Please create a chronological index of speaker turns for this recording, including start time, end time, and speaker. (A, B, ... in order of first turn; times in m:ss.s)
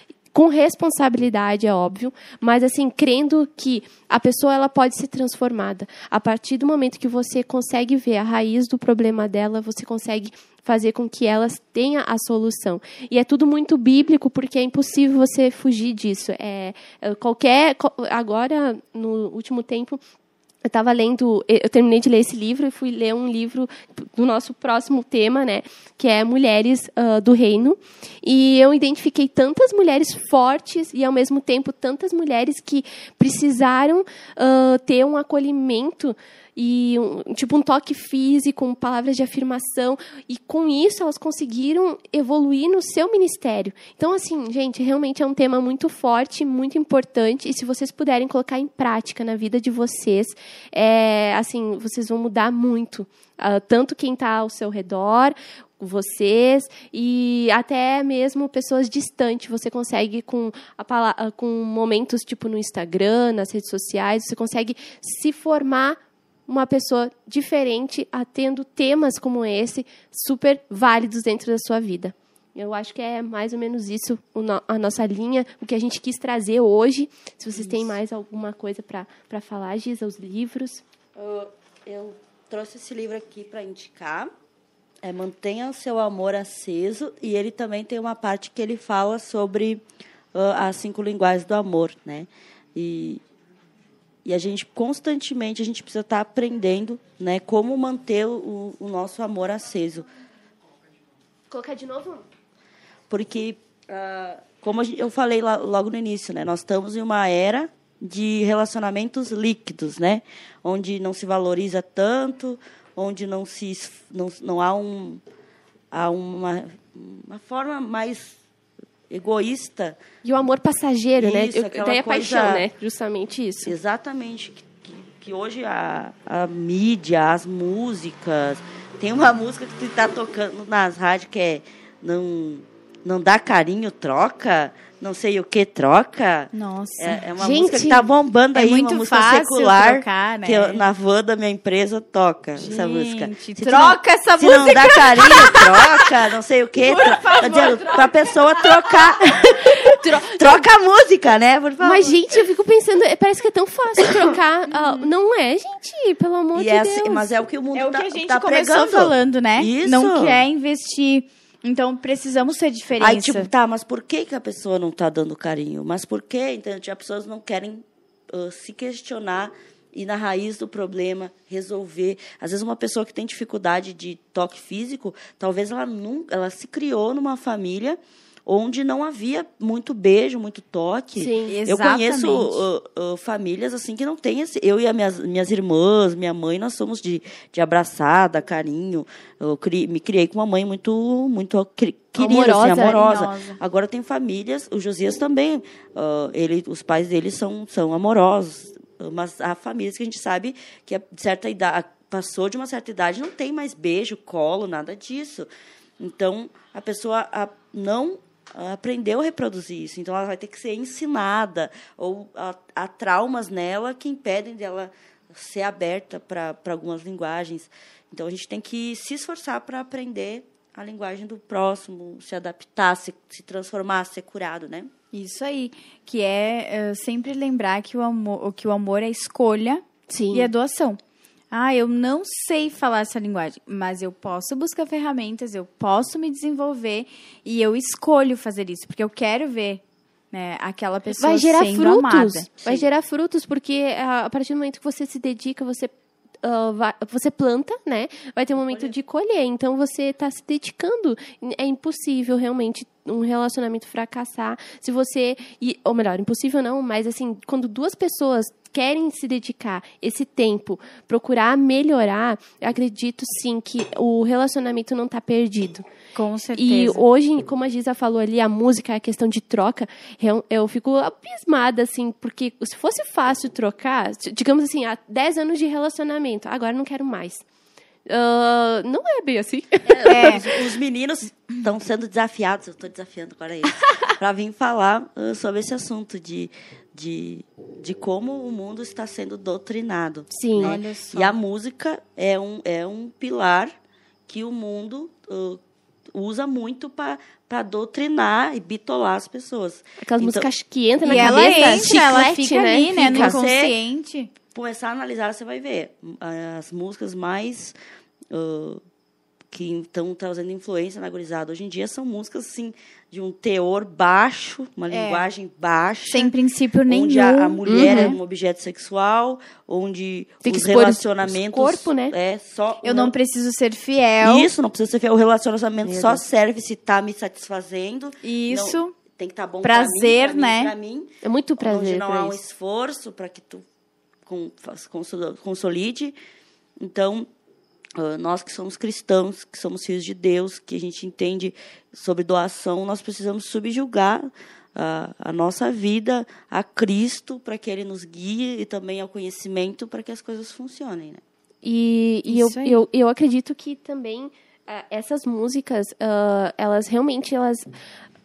0:00.3-0:20.0 A
0:20.6-1:20.8 A
1:17.5-1:18.0 B
1:21.2-1:24.3 B
1:25.0-1:29.8 B
1:30.3-1:33.2 B
1:34.2-1:40.1 B
1:41.5-1:42.2 A
1:43.1-1:55.2 B
1:55.9-1:58.4 B
1:59.1-2:00.0 B
2:00.2-2:03.8 A
2:01.2-2:02.7 B
2:03.6-2:32.2 B
2:16.5-2:17.3 C
2:17.4-2:18.1 A
2:18.5-2:20.8 C
2:22.6-2:26.1 C
2:26.8-2:28.9 C
2:29.8-2:30.6 A
2:31.8-2:37.3 A
2:34.7-2:35.1 C
2:36.6-2:40.4 B
2:37.7-2:43.5 C
2:43.0-3:25.5 B
3:01.2-3:01.5 A
3:01.5-3:02.6 C
3:12.2-3:13.1 A
3:12.8-3:13.6 C
3:26.0-3:44.9 B
3:45.1-3:51.0 C
3:50.1-3:50.5 A
3:51.5-4:02.5 C
4:01.2-4:05.9 A
4:06.4-4:25.8 A
4:08.6-4:08.9 B
4:26.2-4:27.0 C
4:26.6-4:37.4 A
4:38.1-4:40.7 A
4:39.9-4:53.7 B
4:40.0-4:40.4 C
4:50.3-4:50.8 A
4:50.6-4:51.3 C
4:54.3-4:55.6 B
4:56.1-5:00.5 B
5:00.0-5:03.4 A
5:01.0-5:04.3 C
5:01.1-5:02.1 B
5:03.0-5:03.8 B
5:04.5-5:07.8 B
5:08.3-5:08.8 B
5:09.5-5:16.3 B
5:14.9-5:15.3 C
5:16.1-5:18.2 C
5:16.9-5:23.1 B
5:17.6-5:18.1 A
5:20.4-5:22.2 A
5:22.8-5:24.5 C
5:24.2-5:33.6 B
5:25.8-5:26.2 A
5:28.2-5:28.9 C
5:29.6-5:30.7 C
5:31.2-5:32.4 A
5:34.3-5:36.2 B
5:36.8-5:37.3 B
5:38.0-5:51.2 B
5:51.6-5:57.7 A
5:52.3-5:52.8 C